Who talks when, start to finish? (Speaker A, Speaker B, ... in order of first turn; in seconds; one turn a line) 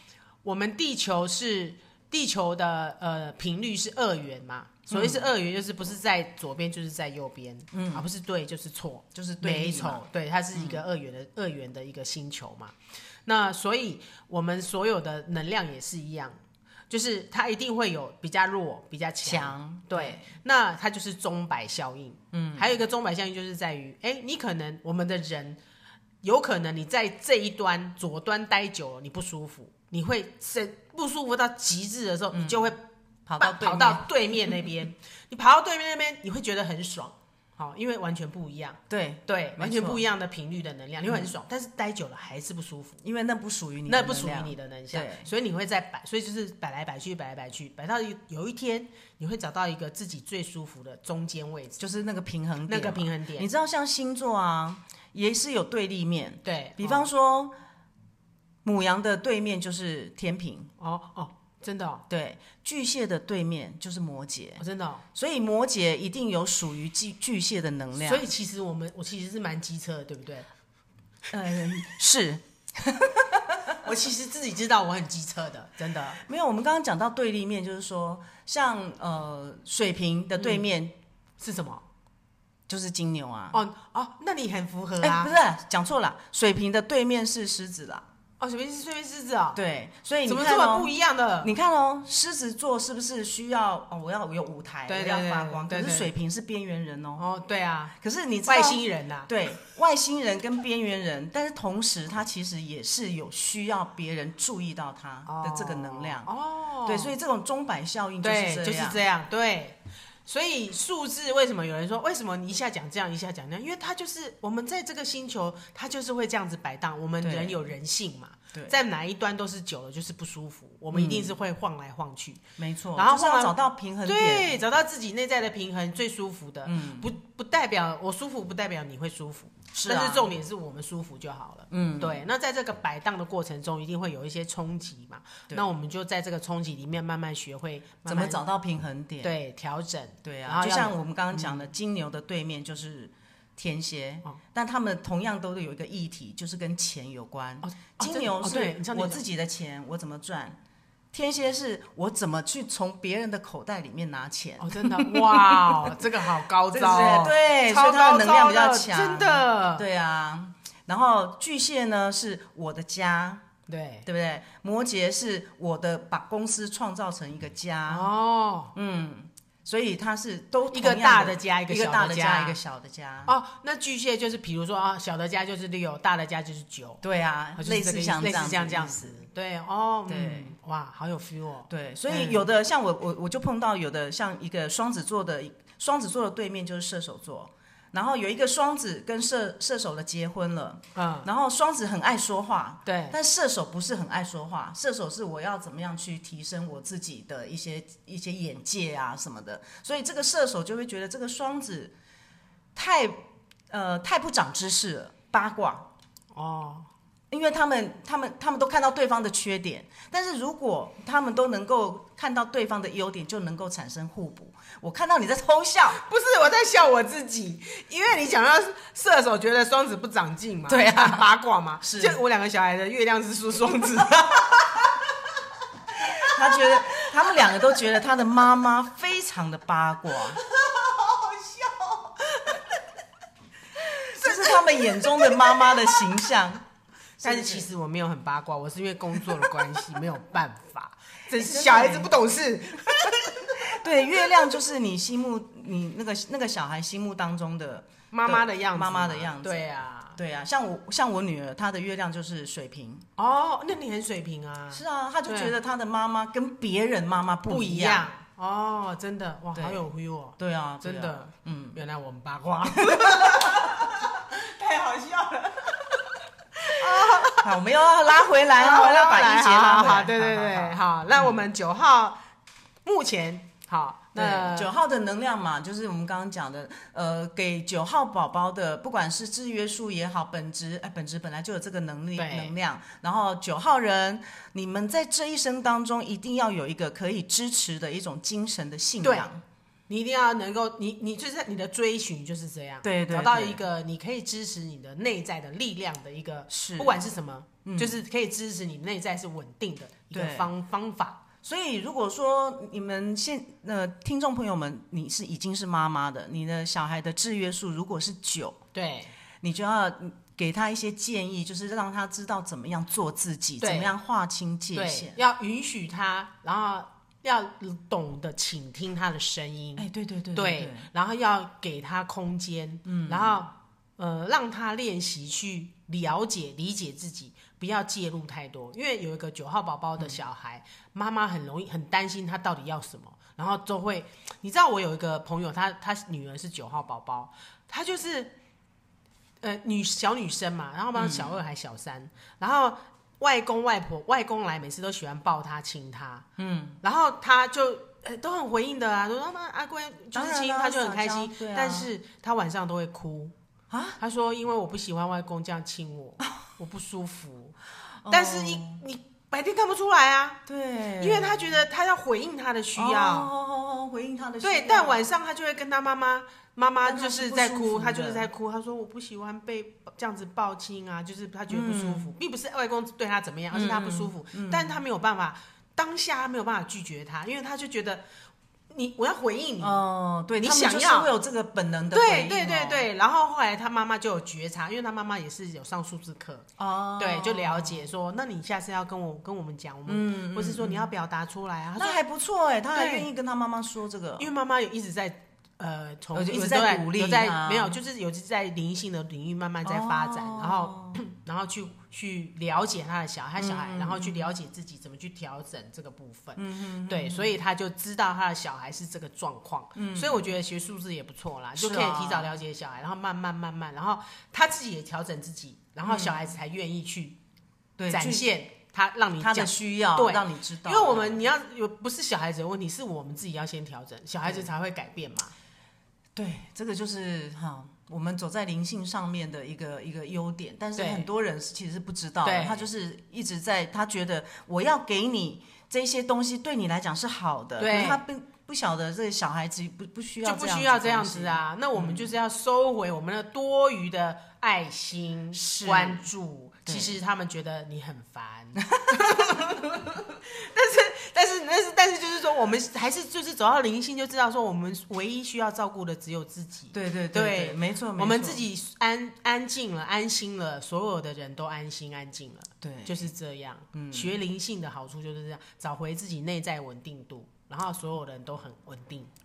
Speaker A: 0.4-16.4
Speaker B: 4.9-5.3
Speaker B: 7.7-8.1
Speaker B: 9.1-10.8
Speaker A: 16.9-25.6
Speaker B: 19.2-20.2
Speaker B: 22.3-22.7
Speaker A: 26.2-32.8
Speaker B: 32.3-32.7
Speaker B: 33.2-34.0
Speaker A: 33.4-43.0
Speaker B: 38.9-40.0
Speaker B: 43.0-45.3
Speaker A: 43.9-51.8
Speaker B: 51.8-57.5
Speaker A: 52.7-53.5
Speaker A: 56.4-57.1
Speaker B: 58.6-60.7
Speaker A: 60.8-62.0
Speaker B: 62.1-64.6
Speaker A: 64.6-65.0
Speaker B: 65.1-68.2
Speaker A: 68.0-70.5
Speaker B: 71.3-73.8
Speaker A: 73.8-76.2
Speaker B: 76.2-81.0
Speaker A: 81.4-81.8
Speaker B: 82.7-83.6
Speaker A: 83.5-85.3
Speaker B: 85.0-88.0
Speaker A: 88.4-89.6
Speaker B: 89.5-90.9
Speaker A: 90.2-91.5
Speaker B: 91.4-97.2
Speaker A: 94.9-96.1
Speaker A: 97.2-99.3
Speaker B: 98.0-106.3
Speaker A: 105.2-107.1
Speaker B: 106.8-109.0
Speaker A: 108.2-122.4
Speaker B: 117.2-117.6
Speaker B: 120.9-121.3
Speaker B: 122.6-124.6
Speaker A: 123.0-138.4
Speaker B: 126.7-127.1
Speaker B: 129.7-130.3
Speaker B: 131.7-132.2
Speaker B: 138.1-139.3
Speaker A: 139.2-141.6
Speaker B: 140.2-150.6
Speaker A: 147.6-149.2
Speaker B: 151.1-155.9
Speaker A: 154.6-159.9
Speaker B: 156.7-163.4
Speaker A: 163.7-164.1
Speaker B: 164.1-168.1
Speaker A: 167.9-168.7
Speaker B: 168.7-173.3
Speaker A: 170.7-172.6
Speaker A: 173.2-177.0
Speaker B: 177.0-179.2
Speaker A: 177.6-182.4
Speaker B: 180.1-180.5
Speaker B: 181.7-201.9
Speaker A: 190.9-191.3
Speaker A: 192.9-193.2
Speaker B: 202.8-205.9
Speaker A: 206.3-206.9
Speaker B: 207.3-216.0
Speaker A: 215.9-225.1
Speaker B: 220.7-221.2
Speaker B: 221.8-222.2
Speaker A: 226.0-227.4
Speaker B: 226.2-230.4
Speaker A: 230.4-232.7
Speaker A: 233.9-236.0
Speaker B: 234.0-236.6
Speaker B: 237.2-237.7
Speaker A: 237.2-243.7
Speaker B: 239.2-239.5
Speaker B: 241.3-242.1
Speaker B: 243.6-253.1
Speaker A: 248.1-250.2
Speaker A: 253.2-255.5
Speaker B: 254.7-258.1
Speaker A: 257.5-265.9
Speaker B: 259.5-259.8
Speaker B: 260.4-261.8
Speaker B: 262.7-264.0
Speaker A: 266.6-267.5
Speaker B: 266.8-271.3
Speaker A: 268.1-272.2
Speaker A: 272.8-274.7
Speaker B: 274.1-289.4
Speaker A: 282.1-282.5
Speaker A: 289.0-289.3
Speaker A: 289.9-301.2
Speaker B: 292.8-293.6
Speaker B: 296.5-297.0
Speaker B: 297.6-298.0
Speaker B: 300.1-300.5
Speaker B: 301.4-308.6
Speaker A: 308.7-309.1
Speaker B: 309.4-315.1
Speaker A: 313.6-313.9
Speaker A: 314.7-338.3
Speaker B: 319.8-320.9
Speaker B: 322.9-323.4
Speaker A: 339.4-346.2
Speaker B: 340.9-341.3
Speaker B: 346.4-346.8
Speaker A: 346.8-353.3
Speaker B: 350.1-351.9
Speaker B: 353.7-354.0
Speaker A: 354.0-357.5
Speaker B: 358.0-358.8
Speaker A: 358.1-360.4
Speaker B: 360.4-361.6
Speaker A: 361.0-363.3
Speaker B: 362.8-365.0
Speaker A: 364.4-378.0
Speaker B: 366.8-368.3
Speaker B: 371.5-372.1
Speaker B: 373.5-374.8
Speaker A: 378.7-379.8
Speaker B: 379.6-382.9
Speaker A: 380.4-381.1
Speaker A: 381.9-386.5
Speaker B: 386.6-387.9
Speaker A: 387.0-392.0
Speaker B: 389.9-390.9
Speaker B: 391.8-394.3
Speaker A: 392.7-393.1
Speaker A: 394.2-417.2
Speaker B: 396.1-397.8
Speaker B: 399.6-401.0
Speaker B: 403.4-404.3
Speaker B: 406.4-407.4
Speaker B: 409.8-410.3
Speaker B: 411.6-412.3
Speaker B: 415.8-416.2
Speaker B: 417.8-418.3
Speaker A: 417.9-425.3
Speaker B: 419.2-421.2
Speaker B: 426.1-442.1
Speaker A: 430.8-431.1
Speaker A: 432.2-432.7
Speaker A: 437.6-438.0
Speaker A: 440.2-469.1
Speaker B: 445.3-446.0
Speaker B: 446.6-446.9
Speaker B: 448.7-449.5
Speaker B: 456.7-458.4
Speaker B: 462.6-462.9
Speaker B: 463.7-464.1